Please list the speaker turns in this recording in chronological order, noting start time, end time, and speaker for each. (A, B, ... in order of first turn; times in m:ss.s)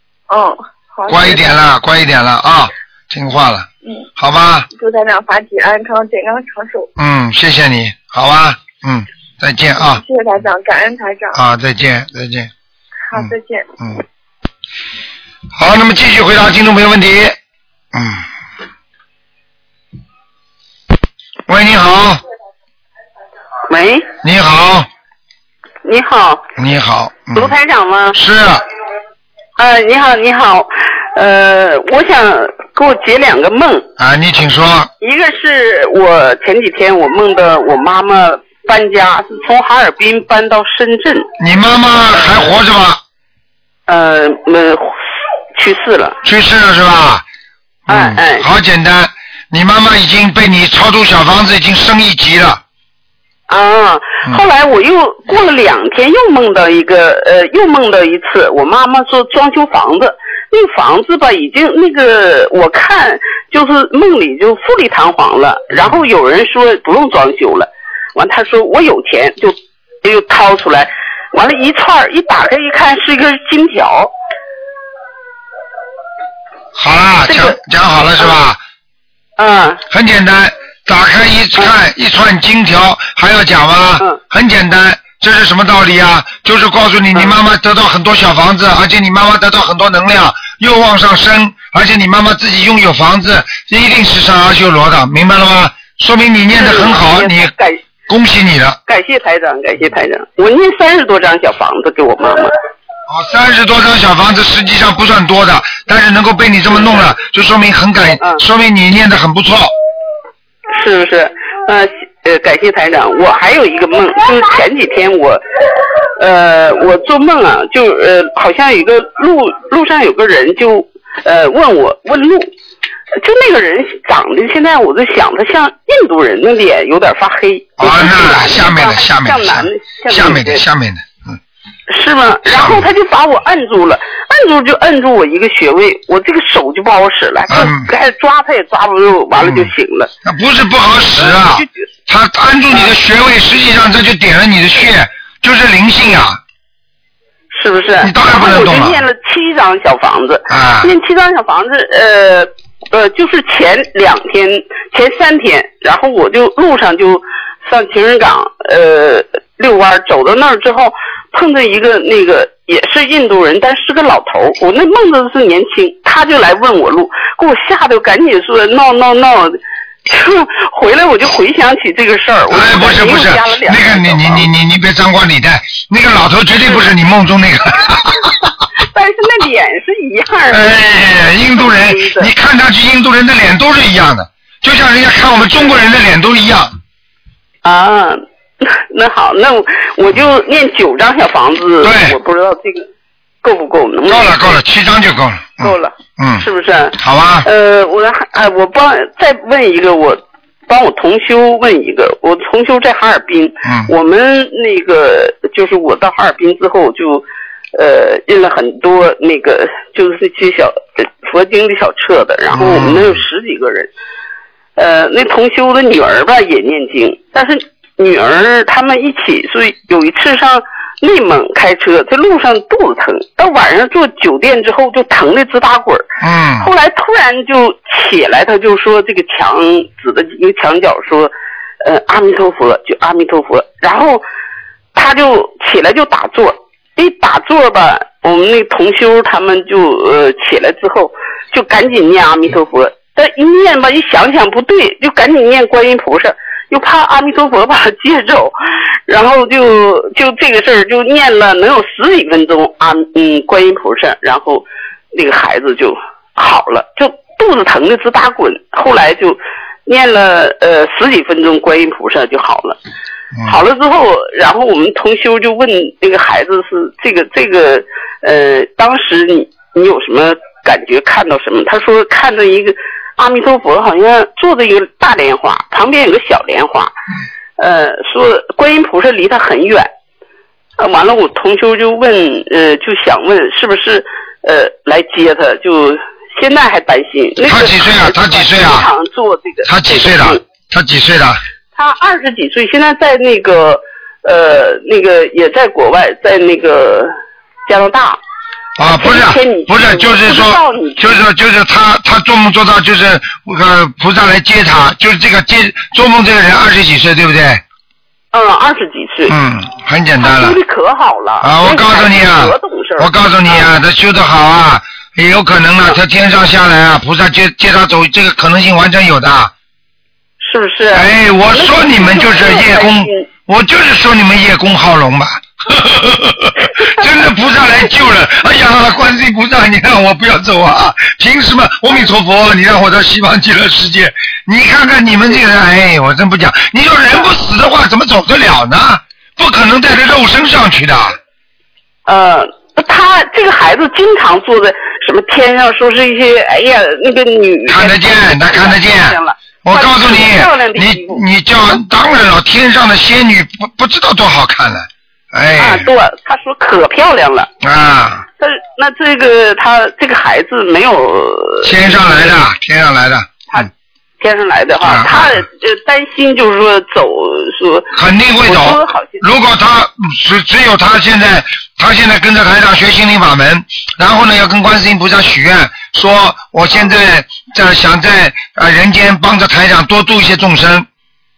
0:00.3-0:01.6 A
0:01.1-0:04.7 B
0:04.7-0:06.9 A
0:07.0-0:10.0 B
0:09.8-0:11.4 A
0:11.3-0:12.5 B
0:13.1-0:13.7 A
0:13.1-0:14.0 B
0:15.6-0:17.4 B
0:17.9-0:18.2 B
0:21.5-0:22.2 B
0:23.7-0:24.1 C
0:24.2-0:24.9 B
0:25.8-0:26.4 C
0:26.6-0:27.6 B
0:27.3-0:28.2 C
0:28.1-0:28.6 B
0:29.6-0:33.9 C
0:34.0-0:34.9 B
0:35.0-0:41.3 C
0:41.4-0:43.0 B
0:42.1-0:42.6 C
0:43.9-0:45.0 C
0:45.6-0:46.2 C
0:46.2-0:47.2 B
0:47.9-0:52.6 B
0:47.9-0:48.5 C
0:53.5-1:14.1 C
1:16.8-1:18.6 B
1:17.3-1:17.6 C
1:19.4-1:19.8 C
1:19.9-1:37.5 B
1:36.5-1:37.8 C
1:38.1-1:38.8 B
1:38.9-1:42.5 C
1:43.1-1:49.7 B
1:46.7-1:47.1 C
1:50.7-1:55.4 C
1:56.2-2:02.5 C
2:03.2-2:10.6 C
2:07.8-2:11.4 B
2:11.9-2:20.1 C
2:12.5-2:12.9 B
2:17.5-2:17.9 B
2:19.4-2:19.7 B
2:20.2-2:26.4 B
2:21.0-2:21.8 C
2:27.5-2:54.5 C
2:28.0-2:29.0 B
2:30.5-2:30.9 B
2:52.5-2:58.3 B
2:58.9-3:00.6 C
3:00.5-3:06.8 B
3:01.6-3:02.3 C
3:07.6-3:12.9 C
3:11.8-3:12.2 B
3:13.4-3:14.6 C
3:14.1-3:17.5 B
3:15.6-3:33.9 C
3:23.6-3:23.9 B
3:32.5-3:33.2 B
3:34.8-3:46.0 C
3:46.2-3:46.7 B
3:46.6-3:51.3 C
3:51.8-3:54.2 C
3:55.0-4:08.6 C
4:09.1-4:22.8 C
4:23.4-4:36.9 C
4:37.6-4:39.9 C
4:40.8-4:50.4 C
4:47.4-4:48.9 B
4:49.6-4:51.4 B
4:51.8-4:57.1 C
4:57.7-4:58.2 C
4:58.8-5:07.6 B
4:58.9-5:01.2 C
5:08.3-5:09.4 C
5:09.3-5:10.6 B
5:10.2-5:13.7 C
5:11.4-5:19.5 B
5:20.4-5:23.3 C
5:20.9-5:41.2 B
5:42.1-5:51.2 C
5:47.7-5:55.9 B
5:55.6-5:57.5 C
5:57.6-5:58.2 B
5:58.4-6:02.2 C
6:01.6-6:03.7 B
6:03.5-6:09.2 C
6:04.8-6:05.5 B
6:07.9-6:20.9 B